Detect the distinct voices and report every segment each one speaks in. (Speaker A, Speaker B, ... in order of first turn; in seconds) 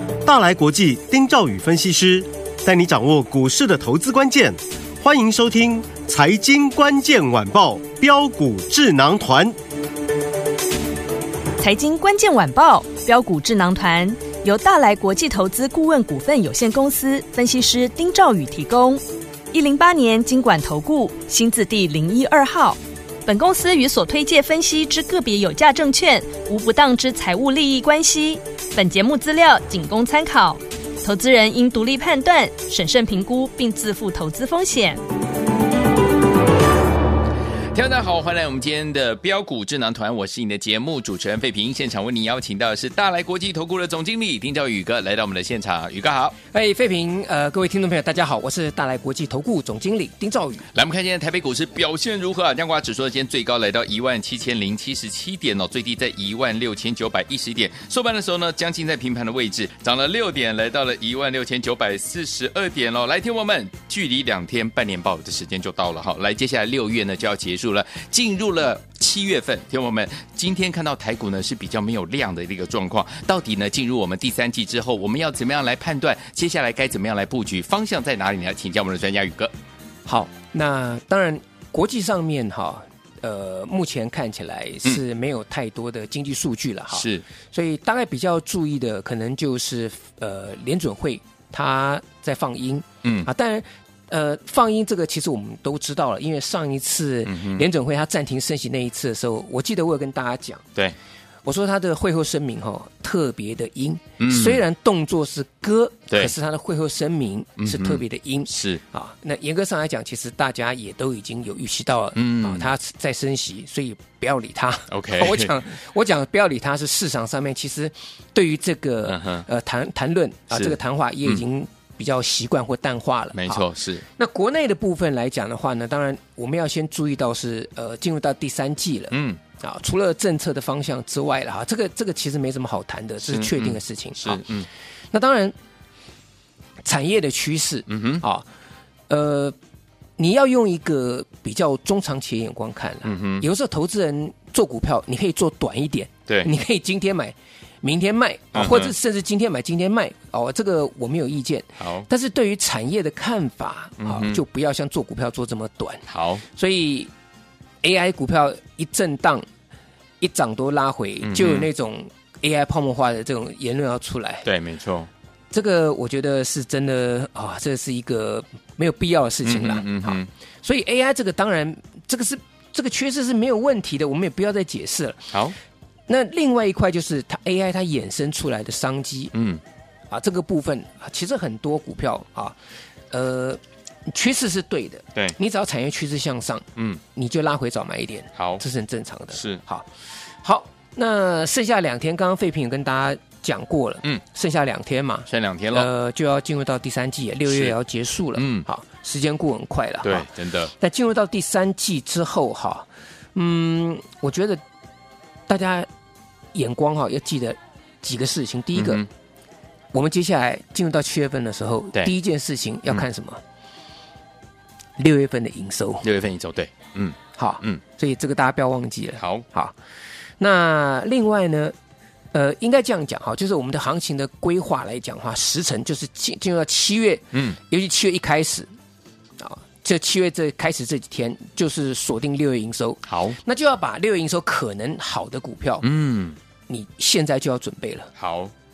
Speaker A: 0.2-9.6
Speaker B: 11.6-35.0
Speaker C: 37.7-46.4, 50.7-79.5, 86.9-87.2, 97.3-97.7, 104.2-104.6, 107.6-108.8, 112.2-112.7, 114.9-115.5, 119.0-119.5, 120.5-121.4, 123.3-124.0, 129.1-129.4, 133.3-134.7, 137.9-138.2, 143.1-143.4, 148.6-148.9, 151.8-152.1, 154.0-154.4, 156.1-156.4, 161.2-161.7, 164.4-165.1, 169.4-170.3, 179.3-179.6, 188.4-188.6, 189.3-189.6, 195.3-195.9, 197.5-197.8, 198.4-198.7, 200.0-200.7, 208.7-209.1, 216.0-217.8, 219.2-219.4, 233.1-233.4, 235.8-236.4, 238.2-238.5
Speaker D: 46.5-50.6, 80.1-100.6, 101.5-134.4, 135.1-135.5, 136.9-138.5, 139.1-139.6, 140.2-157.1, 157.8-159.5, 160.2-164.5, 165.5-175.3, 176.1-179.3, 180.1-182.6, 183.1-189.9, 190.4-204.6, 205.5-205.9, 206.5-209.1, 209.9-213.4, 215.0-216.1, 217.3-219.7, 220.4-221.8, 222.3-228.7, 229.4-235.9, 236.7-238.1